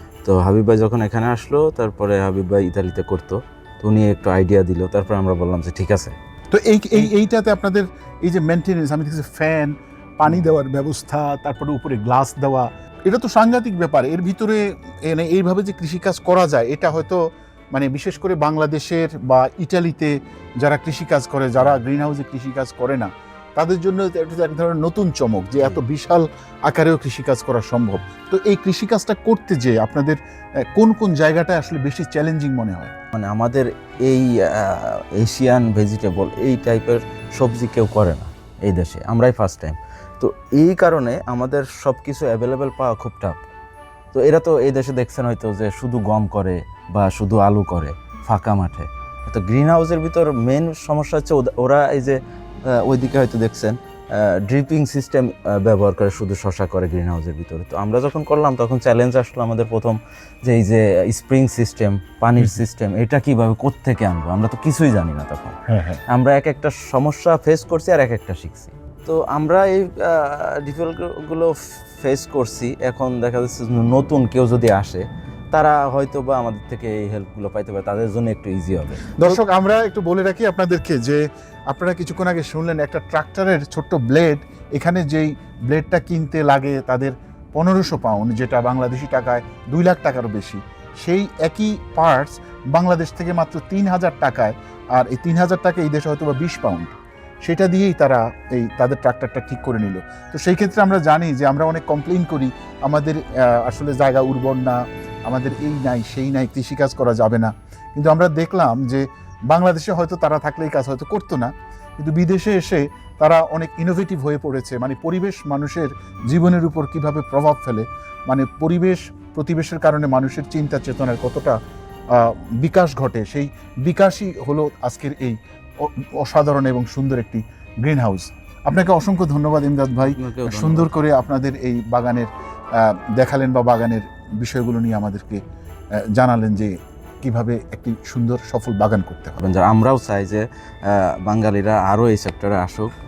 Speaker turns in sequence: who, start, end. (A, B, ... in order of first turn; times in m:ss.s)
0:00.2-0:06.2 A
0:06.5-0:17.2 B
0:10.3-0:10.5 A
0:17.7-0:32.9 B
0:33.2-0:43.4 A
0:44.1-0:52.2 A
0:52.7-1:05.6 A
1:05.7-1:06.0 B
1:06.1-1:19.4 A
1:19.2-1:36.9 B
1:37.4-2:01.6 B
2:02.1-2:15.4 B
2:10.0-2:10.9 A
2:16.2-2:19.4 B
2:19.4-2:22.9 A